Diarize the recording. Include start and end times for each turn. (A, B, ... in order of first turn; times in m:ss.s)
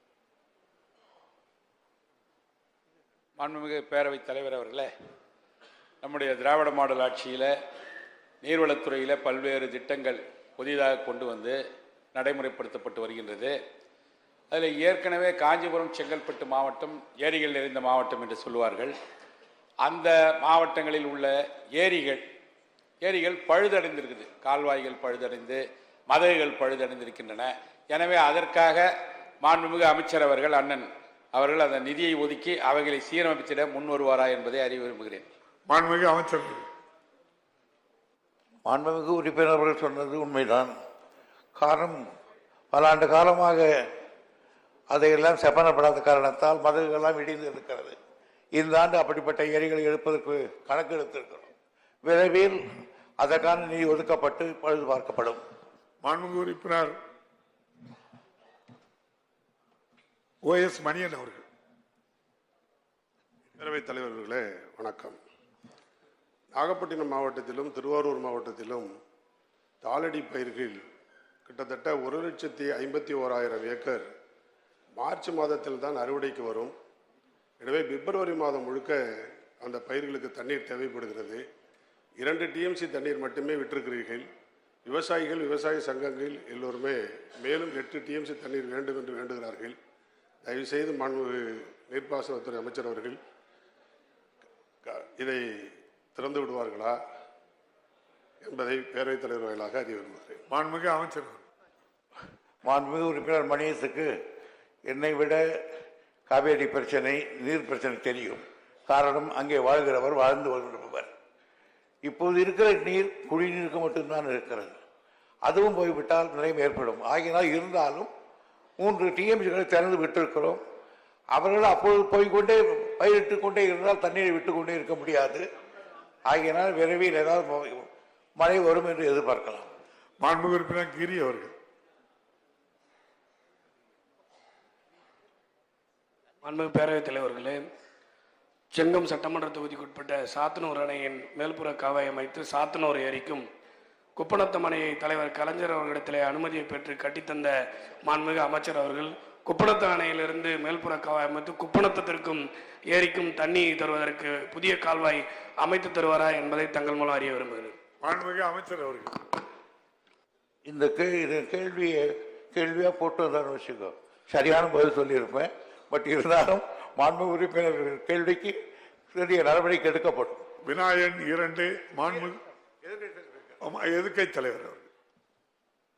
0:03.5-0:04.9 A
0:06.1-0:07.5 A
0:08.5-0:11.5 A
0:12.2-0:13.5 A
0:14.6-0:18.9 A
0:19.9-0:21.3 A
0:21.8-0:22.2 A
0:23.1-0:25.6 A
0:26.1-0:28.9 A
0:29.4-0:30.8 A
0:31.4-0:35.2 A
0:35.7-0:36.7 B
0:38.7-0:40.7 C
0:41.6-0:42.1 C
0:42.7-0:43.9 C
0:44.9-0:48.0 C
0:48.6-0:51.5 C
0:52.0-0:52.6 C
0:53.2-0:55.4 C
0:56.0-0:57.0 B
1:00.4-1:01.4 B
1:03.6-1:05.2 D
1:06.5-1:08.9 D
1:09.8-1:10.8 D
1:11.5-1:14.1 D
1:15.0-1:16.7 D
1:17.6-1:19.0 D
1:19.6-1:21.4 D
1:22.2-1:24.3 D
1:24.9-1:29.8 D
1:30.4-1:33.2 D
1:34.8-1:37.0 D
1:38.4-1:40.4 D
1:40.5-1:41.4 B
1:42.6-1:44.1 C
1:44.9-1:45.4 C
1:46.3-1:51.1 C
1:52.0-1:54.8 C
1:55.5-1:58.1 C
1:58.8-2:00.6 C
2:01.4-2:05.4 C
2:06.3-2:09.7 C
2:10.2-2:11.5 B
2:16.4-2:17.7 E
2:18.7-2:23.5 E
2:24.2-2:37.8 E
2:38.0-2:39.1 B
2:40.7-2:48.6 C
2:49.1-2:50.5 C
2:50.6-2:52.4 B
2:53.6-2:54.9 B